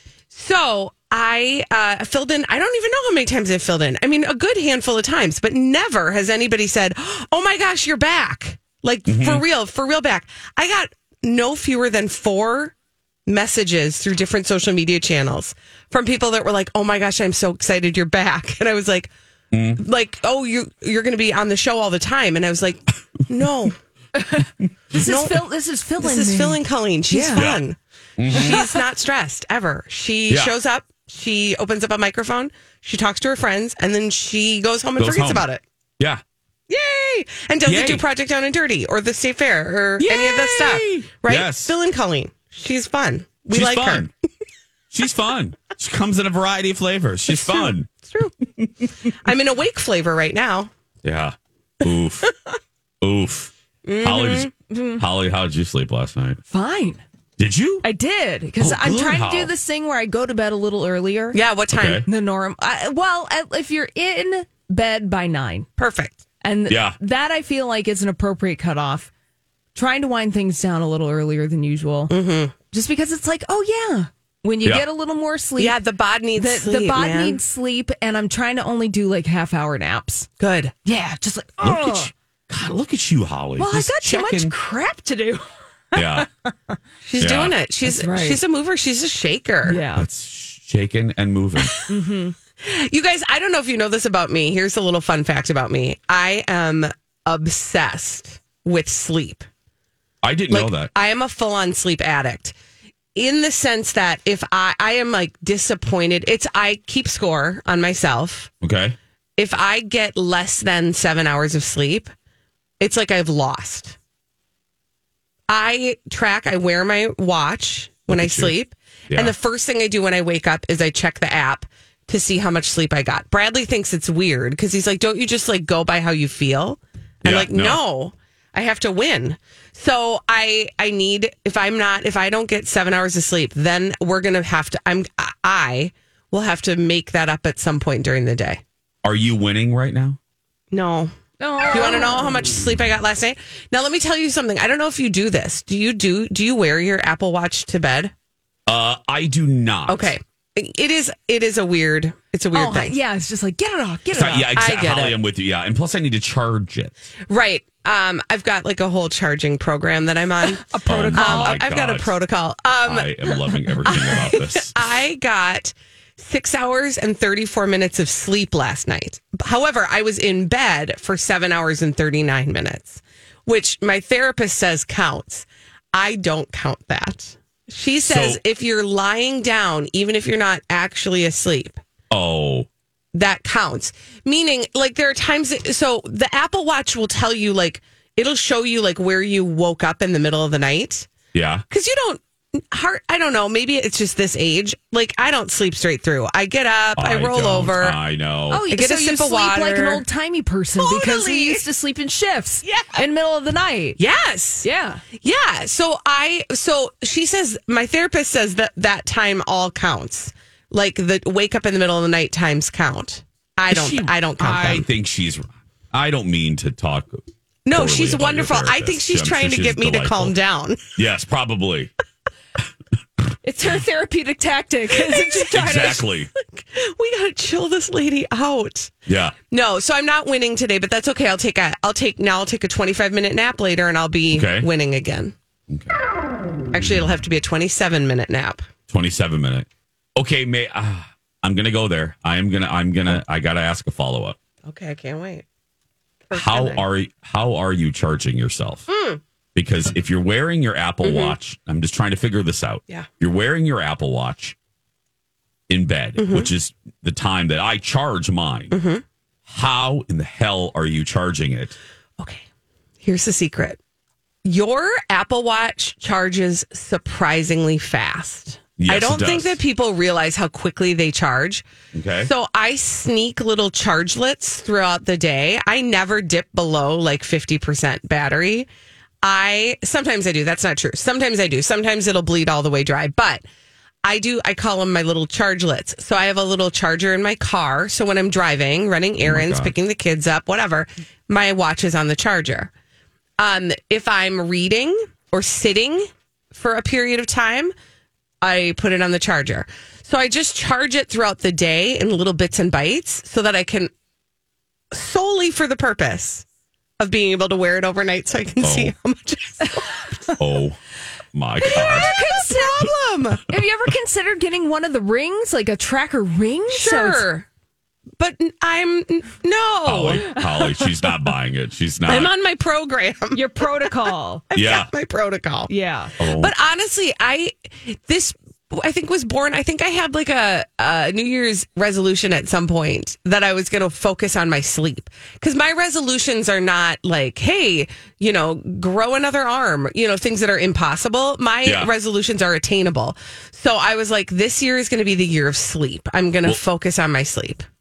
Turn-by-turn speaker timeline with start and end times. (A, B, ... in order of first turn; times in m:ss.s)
0:00.3-0:12.7 A
0:09.1-0:09.4 B
0:13.3-0:19.1 A
0:19.5-0:19.8 B
0:19.8-0:23.7 A
0:24.1-0:27.4 C
0:25.0-0:25.4 A
0:26.0-0:35.6 A
0:27.4-0:27.6 B
0:28.2-0:28.8 B
0:35.0-0:35.4 B
0:36.7-0:44.1 A
0:37.6-0:38.0 B
0:40.0-0:41.7 B
0:43.5-0:44.1 B
0:44.9-0:47.9 B
0:47.3-0:48.3 A
0:49.2-0:50.7 A
0:51.0-0:52.3 B
0:53.0-0:56.4 B
0:53.8-0:54.5 A
0:54.7-0:55.0 C
0:56.5-0:57.0 C
0:57.4-0:57.8 B
0:57.8-1:01.4 C
0:58.6-0:59.5 B
1:01.3-1:02.0 A
1:01.7-1:02.0 B
1:02.1-1:05.7 C
1:05.8-1:06.2 A
1:06.4-1:09.1 C
1:06.7-1:07.0 B
1:09.7-1:12.2 C
1:12.1-1:12.5 A
1:12.7-1:15.8 C
1:15.6-1:17.4 A
1:16.4-1:20.3 C
1:20.4-1:20.7 A
1:20.8-1:22.1 C
1:21.6-1:24.5 B
1:23.6-1:26.8 C
1:25.9-1:26.2 B
1:27.0-1:29.8 A
1:27.2-1:27.6 B
1:27.8-1:28.4 C
1:29.6-1:30.0 C
1:29.9-1:31.7 B
1:31.9-1:32.3 C
1:32.6-1:39.5 A
1:40.2-1:40.9 B
1:40.5-1:42.5 A
1:43.1-1:48.5 A
1:48.6-1:49.0 B
1:49.4-1:52.1 A
1:52.8-1:54.0 A
1:55.5-2:18.6 A
1:58.1-1:58.5 B
2:07.2-2:07.8 B
2:19.0-2:20.2 B
2:20.7-2:21.1 A
2:21.4-2:22.2 C
2:21.7-2:28.1 A
2:28.7-2:30.1 B
2:29.9-2:32.9 A
2:32.5-2:34.5 C
2:34.1-2:36.9 B
2:34.5-2:35.2 A
2:37.3-2:40.6 A
2:40.6-2:41.6 C
2:40.9-2:42.1 B
2:41.2-2:43.2 A
2:42.8-2:44.8 B
2:43.8-3:01.8 A
2:58.0-2:58.4 B
3:02.1-3:02.7 B
3:03.1-3:11.1 A
3:11.3-3:11.6 B
3:11.7-3:18.0 A
3:17.0-3:18.6 B
3:18.5-3:24.0 C
3:18.7-3:20.0 A
3:20.8-3:21.6 A
3:22.6-3:23.0 A
3:24.0-3:24.7 A
3:24.6-3:25.0 C
3:25.2-3:34.8 A
3:33.7-3:40.3 B
3:34.5-3:34.8 C
3:37.6-3:40.8 A
3:41.0-3:41.9 B
3:43.4-3:46.0 C
3:45.0-3:48.9 A
3:45.5-3:46.3 B
3:49.1-3:49.4 B
3:49.5-3:55.3 A
3:54.3-3:54.7 B
3:55.7-3:56.0 B
3:56.7-3:58.7 A
3:58.9-4:04.4 B
4:04.6-4:05.4 A
4:06.3-4:06.8 A
4:06.3-4:08.9 B
4:08.9-4:09.2 A
4:09.5-4:14.5 B
4:11.0-4:11.3 A
4:15.7-4:18.8 B
4:16.2-4:16.5 A
4:18.7-4:19.0 A
4:19.5-4:21.8 B
4:22.2-4:22.4 A
4:23.0-4:23.8 A
4:24.4-4:31.6 A
4:28.8-4:29.6 B
4:31.9-4:32.3 B
4:32.2-4:38.7 A
4:39.2-4:43.4 A
4:44.0-4:52.7 A
4:49.2-4:49.7 B
4:53.4-4:57.7 A
4:58.4-5:03.9 A
5:04.9-5:06.4 A
5:07.0-5:10.2 A
5:08.6-5:08.9 B
5:10.4-5:10.8 B
5:11.3-5:12.1 B
5:11.6-5:13.4 A
5:11.7-5:12.8 C
5:13.5-5:17.2 C
5:16.7-5:17.4 A
5:18.2-5:20.4 A
5:19.8-5:22.3 B
5:20.3-5:20.6 C
5:22.0-5:23.4 A
5:23.3-5:24.4 C
5:24.5-5:25.7 A
5:24.5-5:24.9 B
5:25.7-5:26.1 C
5:26.2-5:26.5 B
5:26.2-5:47.6 A
5:41.6-5:41.9 B